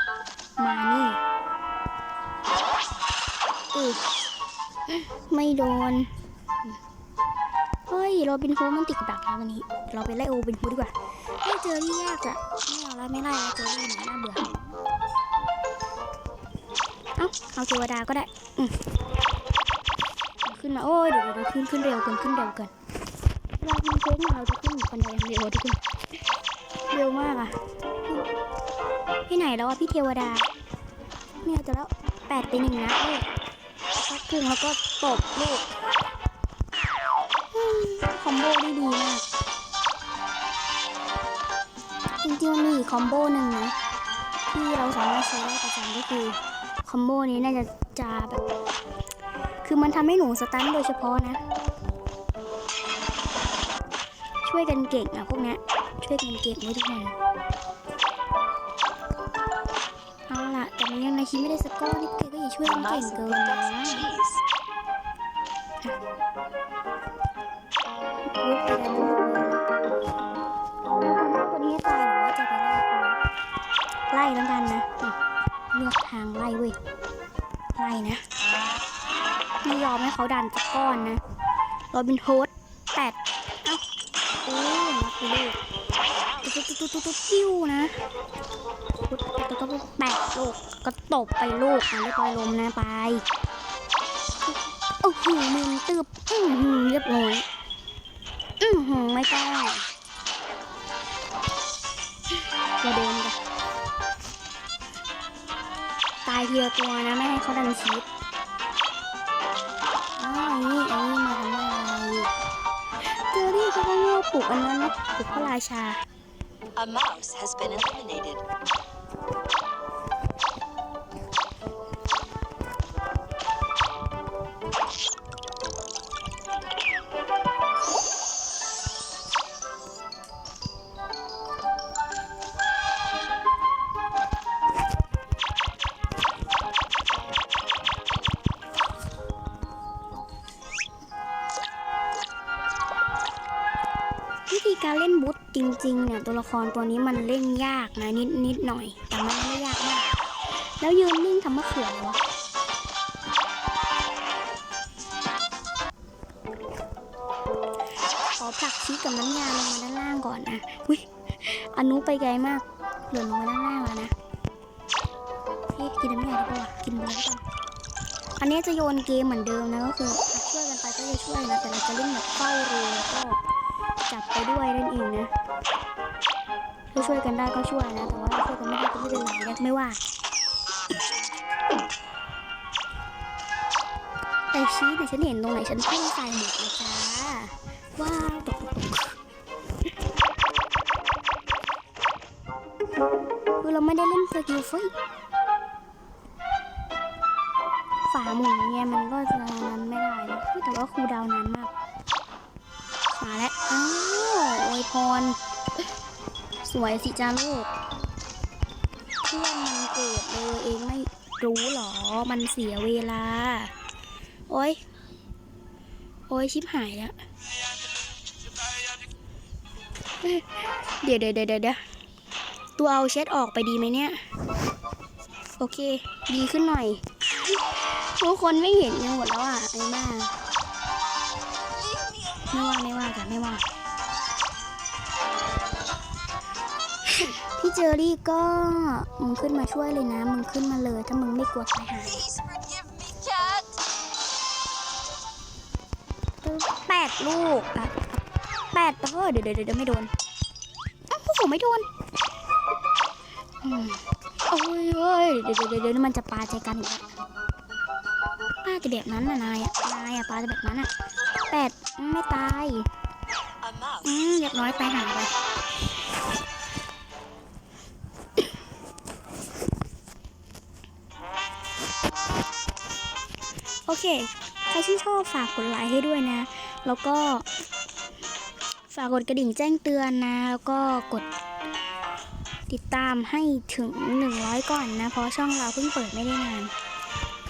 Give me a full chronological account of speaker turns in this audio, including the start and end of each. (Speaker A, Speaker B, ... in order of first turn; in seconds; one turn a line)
Speaker A: 0.6-1.2
Speaker A: 3.7-4.0
Speaker A: 4.9-6.1
Speaker A: 7.9-14.5
Speaker A: 17.2-18.8
Speaker A: 20.4-22.7
Speaker A: 23.6-25.8
Speaker A: 26.9-27.6
Speaker A: 29.3-30.5
Speaker A: 31.4-33.3
Speaker A: 34.0-35.7
Speaker A: 37.5-39.2
Speaker A: 42.2-43.7
Speaker A: 44.5-48.4
Speaker A: 49.6-51.4
Speaker A: 54.4-57.1
Speaker A: 60.3-64.0
Speaker B: 62.6-64.4
Speaker A: 68.3-69.6
Speaker A: 71.0-73.2
Speaker A: 74.1-75.2
Speaker A: 75.7-76.8
Speaker A: 77.8-78.2
Speaker A: 79.6-81.2
Speaker A: 81.9-83.8
Speaker A: 84.5-85.6
Speaker B: 86.0-86.6
Speaker A: 86.4-88.0
Speaker A: 89.0-93.2
Speaker A: 95.0-97.5
Speaker A: 98.6-99.9
Speaker A: 102.8-103.4
Speaker A: 106.2-108.1
Speaker A: 110.2-112.3
Speaker A: 113.1-116.0
Speaker B: 116.8-118.4
Speaker A: 144.5-152.2
Speaker A: 158.4-164.1
Speaker A: 165.7-167.4
Speaker A: 168.4-173.4
Speaker A: 174.1-175.3
Speaker A: 176.9-180.0
Speaker A: 184.5-189.2
Speaker A: 193.6-194.9
Speaker A: 198.1-201.7
Speaker A: 203.2-205.4
Speaker A: 206.6-207.7
Speaker A: 209.3-213.7
Speaker A: 214.5-214.8
Speaker A: 216.3-217.1
Speaker A: 220.2-221.8
Speaker A: 222.8-224.2
Speaker A: 225.6-230.4
Speaker B: 231.7-232.6
Speaker A: 232.5-233.6
Speaker A: 237.1-242.2
Speaker B: 242.1-243.8
Speaker A: 246.4-250.1
Speaker A: 251.1-251.9
Speaker A: 253.6-257.1
Speaker A: 258.6-260.9
Speaker A: 261.5-262.9
Speaker B: 263.6-264.3
Speaker A: 264.0-265.3
Speaker A: 273.9-277.5
Speaker A: 278.9-281.3
Speaker A: 282.7-286.7